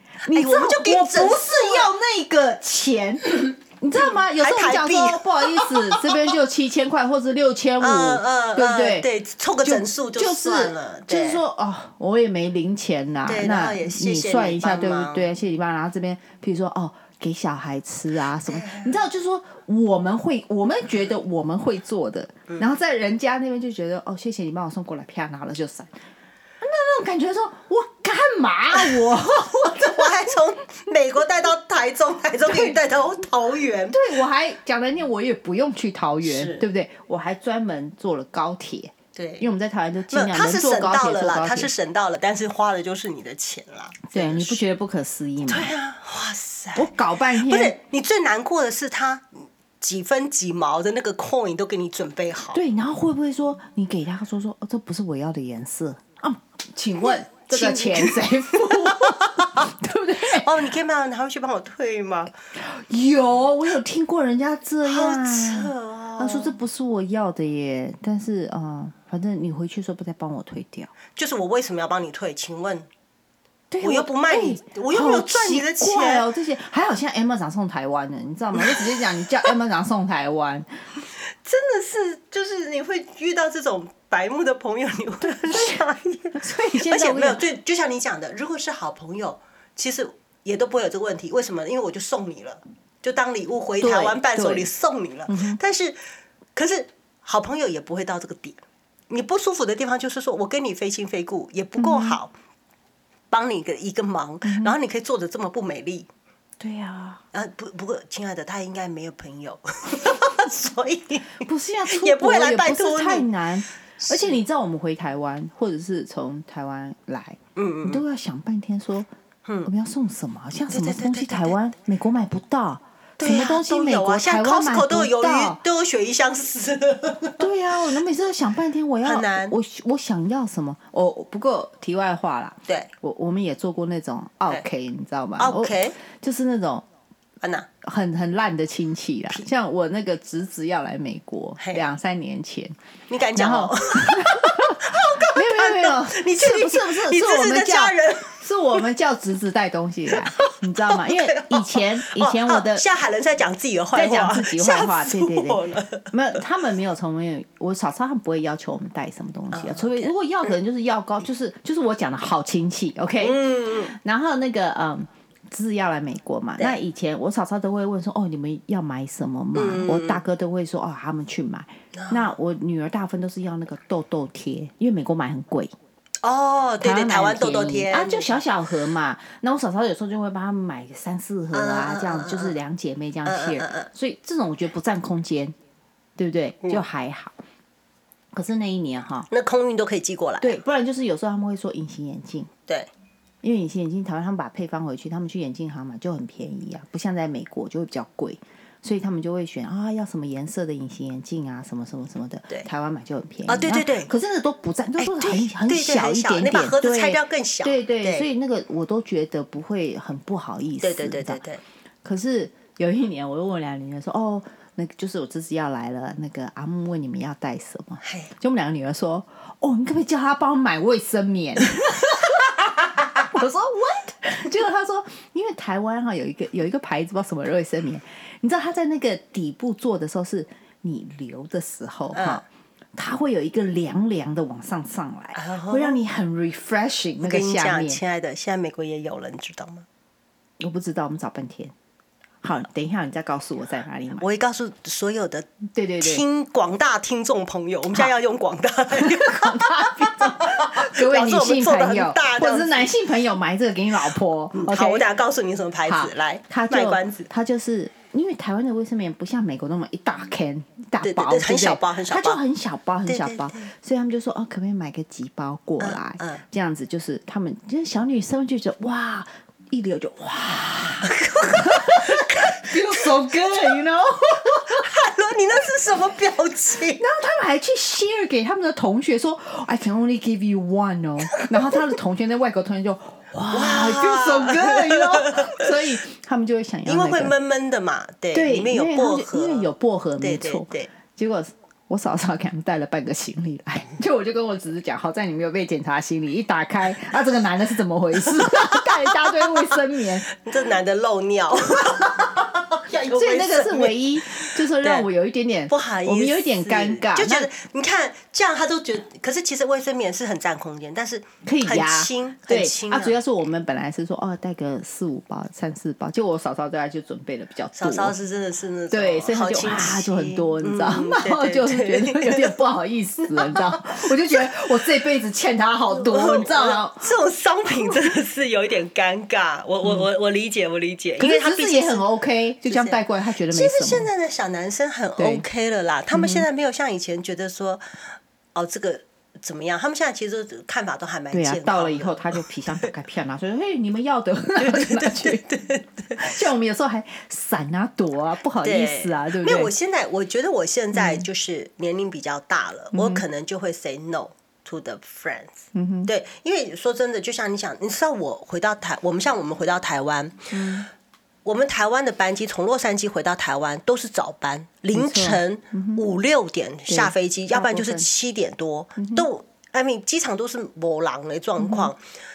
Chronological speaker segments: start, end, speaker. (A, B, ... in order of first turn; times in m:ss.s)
0:00.2-0:01.9 A
0:00.3-0:09.1 B
0:04.0-0:06.3 A
0:07.8-0:11.4 A
0:09.6-0:25.9 B
0:13.3-0:15.3 A
0:18.5-0:19.0 A
0:26.6-0:30.4 B
0:29.6-0:34.0 A
0:32.5-0:32.8 B
0:33.9-0:41.7 B
0:36.2-0:36.6 A
0:39.2-0:39.5 A
0:40.1-0:44.6 A
0:44.1-0:45.7 B
0:45.4-0:52.6 A
0:46.8-0:47.8 B
0:52.5-1:00.5 B
0:57.1-0:59.7 A
1:00.3-1:02.3 A
1:02.6-1:10.9 B
1:04.8-1:06.6 A
1:11.2-1:12.9 A
1:13.7-1:20.7 B
1:13.8-1:16.2 A
1:18.6-1:18.9 A
1:21.3-1:36.0 A
1:25.5-1:25.8 B
1:26.4-1:27.4 B
1:33.8-1:34.7 B
1:35.3-1:35.6 B
1:36.6-1:42.3 A
1:41.8-1:42.2 B
1:43.3-1:46.1 A
1:44.4-1:44.8 B
1:46.6-1:47.2 B
1:47.3-1:53.3 A
1:51.4-1:59.1 B
1:54.0-1:54.4 A
1:57.6-1:58.0 A
1:59.6-2:05.6 B
2:00.7-2:01.6 A
2:03.2-2:07.5 A
2:07.4-2:16.8 B
2:09.0-2:09.6 A
2:15.4-2:16.0 A
2:17.4-2:17.7 A
2:17.8-2:22.8 B
2:21.6-2:21.8 A
2:23.1-2:28.4 A
2:23.4-2:32.8 B
2:30.1-2:36.4 A
2:34.0-2:55.7 B
2:39.5-2:40.5 A
2:43.2-2:43.9 A
2:49.6-2:50.2 A
2:51.9-2:52.3 A
2:56.2-2:58.4 A
2:56.8-3:05.5 B
3:01.5-3:02.6 A
3:03.3-3:03.9 A
3:06.2-3:07.4 B
3:08.3-3:09.3 B
3:09.3-3:10.6 A
3:10.4-3:12.5 B
3:13.4-3:31.4 B
3:23.5-3:24.1 A
3:25.0-3:28.3 A
3:30.8-3:31.6 A
3:32.0-3:52.4 B
3:38.0-3:38.3 A
3:52.1-3:52.4 A
3:53.0-3:58.0 B
3:55.3-3:56.0 A
3:57.2-3:59.9 A
4:00.6-4:01.7 B
4:02.4-4:04.2 B
4:04.2-4:05.5 A
4:05.7-4:06.2 B
4:06.0-4:12.9 A
4:08.9-4:15.0 B
4:14.6-4:17.3 A
4:15.9-4:34.9 B
4:21.0-4:22.4 A
4:23.1-4:23.7 A
4:25.8-4:26.4 A
4:31.0-4:33.3 A
4:34.4-4:37.1 A
4:37.0-4:47.3 B
4:41.3-4:41.8 A
4:43.5-4:45.7 A
4:46.9-4:50.9 A
4:48.3-5:00.3 B
4:58.3-4:59.3 A
5:00.3-5:05.1 A
5:01.8-5:02.1 B
5:03.1-5:07.5 B
5:05.7-5:13.2 A
5:11.4-5:18.2 B
5:17.8-5:22.5 A
5:18.9-5:27.1 B
5:25.9-5:32.0 A
5:31.2-5:34.1 B
5:32.6-5:38.0 A
5:35.2-5:35.4 B
5:36.1-5:36.5 B
5:38.6-5:42.9 A
5:41.3-5:45.4 B
5:44.6-5:46.3 A
5:46.2-5:49.7 B
5:48.6-6:00.5 A
5:50.9-5:51.3 B
5:52.9-5:53.2 B
5:55.7-5:56.1 B
6:00.5-6:00.9 B
6:01.4-6:12.0 A
6:04.9-6:06.0 B
6:06.9-6:08.1 B
6:09.0-6:09.3 B
6:11.6-6:11.9 B